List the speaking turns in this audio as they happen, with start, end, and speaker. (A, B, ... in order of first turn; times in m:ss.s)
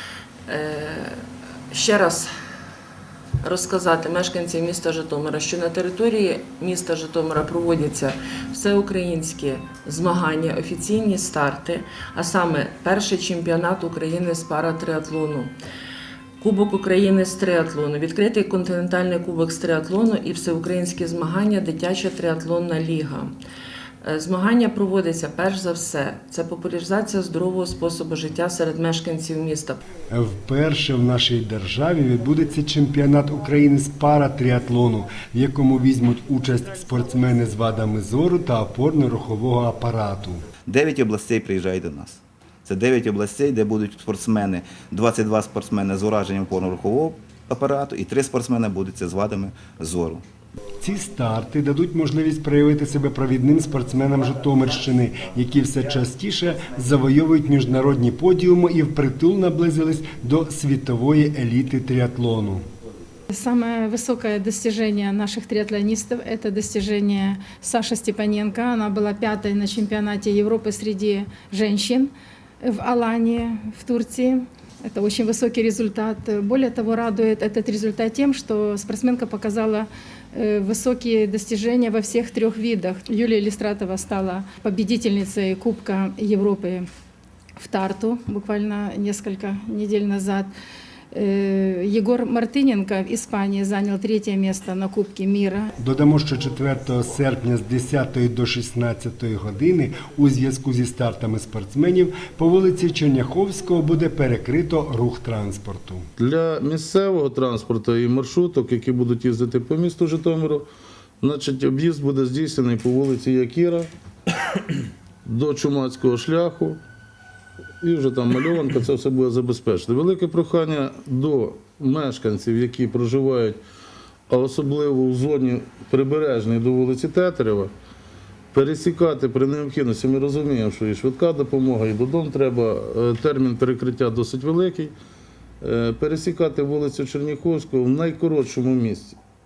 0:00.5-0:02.3 A
0:03.4-0:15.5 A
0:16.4-0:23.3 A
0:24.0-0:29.8 A
0:30.1-0:40.5 B
0:40.7-0:50.2 C
0:50.8-1:02.6 B
1:03.3-1:26.8 D
1:27.6-1:30.5 D
1:31.1-1:35.7 D
1:35.8-1:46.0 B
1:46.2-1:50.7 E
1:51.2-1:53.9 E
1:55.2-1:56.8 E
1:57.8-2:03.6 E
2:04.3-2:07.7 E
2:08.5-2:14.9 E
2:15.6-2:19.2 E